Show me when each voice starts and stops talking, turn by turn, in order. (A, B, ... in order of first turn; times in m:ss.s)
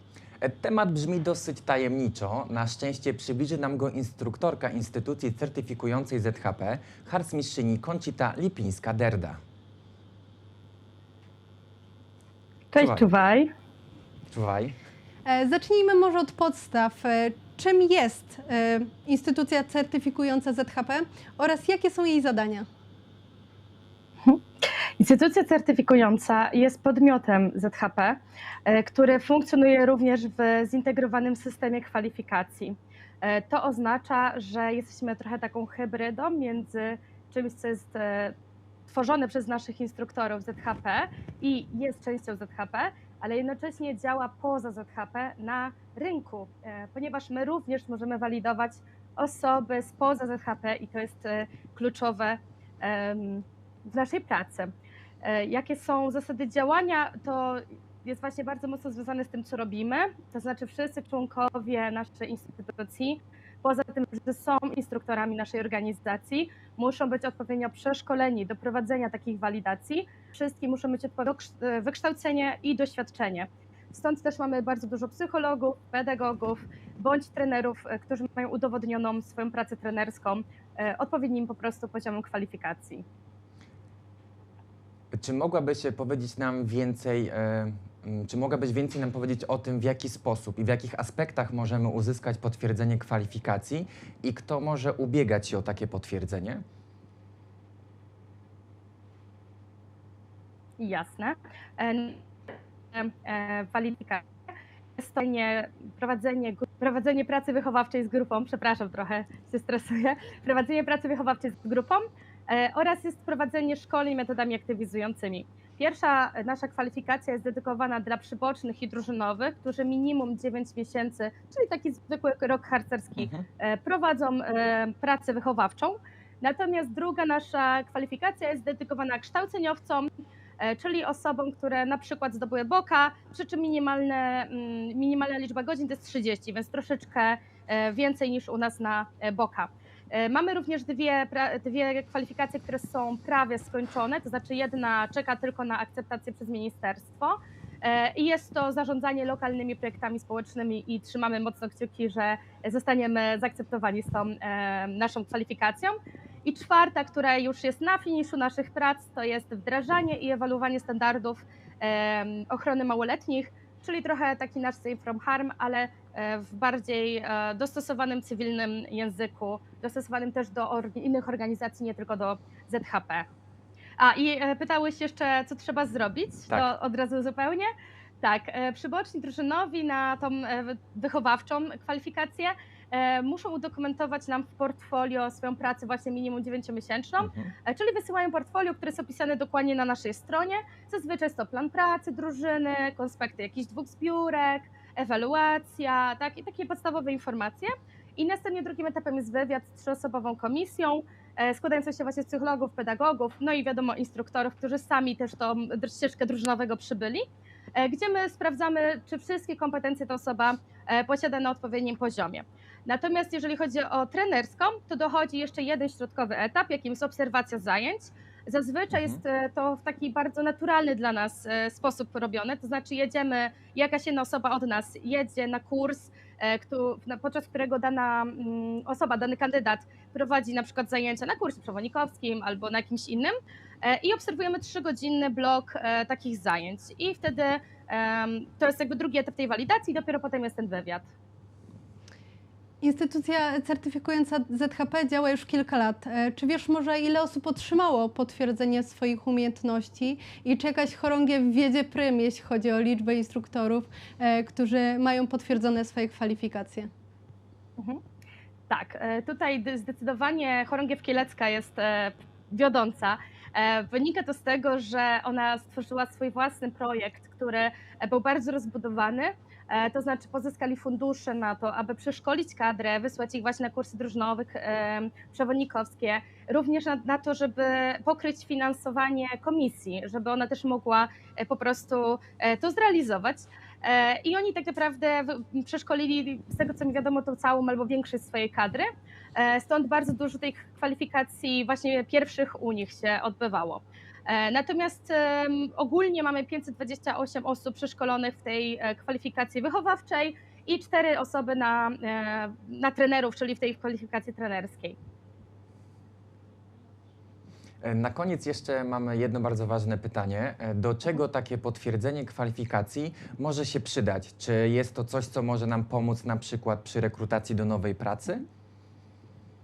0:00.4-0:09.4 A
0:12.7-0:13.5 B
0:12.8-0:13.0 A
0:14.3-0:14.8 A
0:15.2-0:22.7 C
0:24.2-0:38.4 B
0:38.9-0:54.7 B
0:55.2-1:23.0 B
1:25.1-1:36.6 A
1:40.8-1:42.2 B
1:42.9-1:44.3 B
1:45.0-2:53.3 B
2:03.2-2:03.5 A
2:54.0-2:57.7 B
2:58.2-4:01.1 B
3:07.2-3:07.5 A
4:02.8-4:16.9 C
4:18.7-5:05.0 B
5:07.8-5:18.5 A